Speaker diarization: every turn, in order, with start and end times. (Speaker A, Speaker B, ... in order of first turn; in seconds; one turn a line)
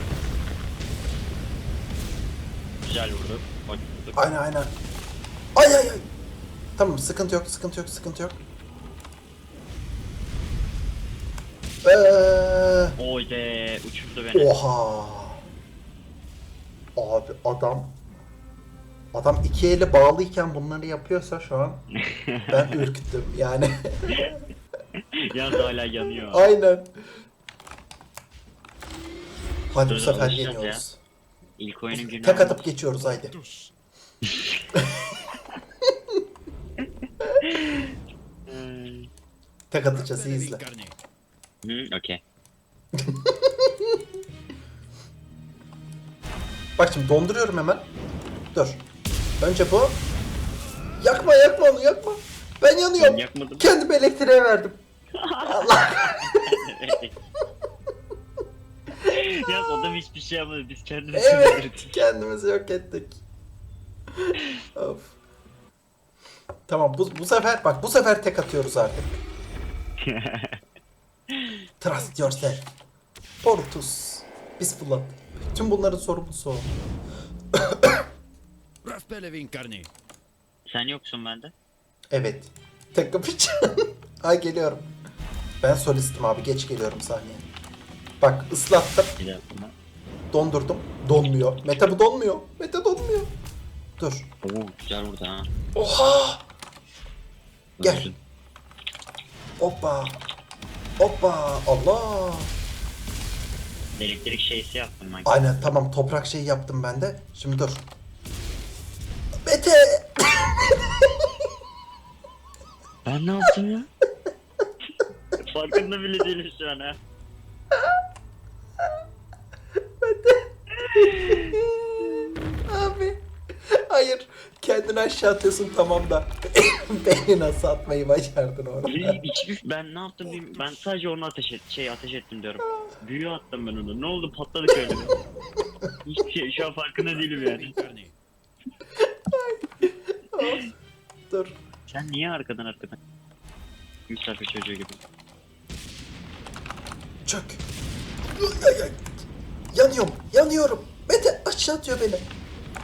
Speaker A: 2.8-4.2
Speaker B: 4.2-4.7
Speaker B: 5.6-6.1
Speaker B: 6.8-8.4
Speaker B: 11.8-13.0
Speaker A: 13.0-14.4
Speaker B: 14.3-15.4
Speaker B: 17.0-18.0
Speaker B: 19.1-21.8
Speaker A: 22.0-22.8
Speaker B: 22.5-24.4
Speaker A: 25.2-26.5
Speaker B: 26.3-26.9
Speaker B: 29.7-31.0
Speaker A: 29.9-30.8
Speaker A: 31.6-32.6
Speaker B: 31.9-33.4
Speaker B: 34.8-35.0
Speaker A: 37.4-39.1
Speaker B: 39.7-40.6
Speaker C: 40.1-41.0
Speaker A: 41.6-42.2
Speaker B: 43.0-44.0
Speaker B: 46.8-47.9
Speaker B: 48.5-48.8
Speaker B: 49.4-50.0
Speaker B: 51.0-54.8
Speaker A: 53.0-53.7
Speaker A: 55.1-57.1
Speaker B: 55.5-57.0
Speaker B: 59.0-59.9
Speaker A: 59.1-62.0
Speaker B: 61.1-63.2
Speaker B: 64.2-65.2
Speaker B: 66.7-69.2
Speaker A: 70.0-70.6
Speaker B: 71.8-72.7
Speaker B: 73.4-76.8
Speaker B: 77.6-78.0
Speaker C: 78.8-79.9
Speaker A: 80.7-81.5
Speaker B: 82.1-84.9
Speaker B: 85.6-87.5
Speaker B: 88.2-89.1
Speaker A: 89.2-89.7
Speaker B: 90.3-93.3
Speaker B: 94.0-94.3
Speaker A: 94.4-95.5
Speaker B: 95.8-96.5
Speaker A: 97.8-98.2
Speaker B: 97.8-98.1
Speaker B: 99.6-100.2
Speaker B: 101.0-102.5
Speaker A: 104.0-105.7
Speaker B: 105.2-107.9
Speaker B: 109.5-111.1
Speaker A: 113.0-113.9
Speaker A: 115.4-117.0
Speaker B: 120.0-129.2
Speaker A: 120.8-121.5
Speaker A: 128.9-135.2
Speaker A: 136.1-137.7
Speaker C: 137.0-138.1
Speaker B: 139.0-140.8
Speaker B: 141.3-141.6
Speaker A: 141.9-143.0
Speaker A: 144.1-145.0
Speaker B: 147.3-147.6
Speaker B: 148.4-149.1
Speaker B: 149.7-152.3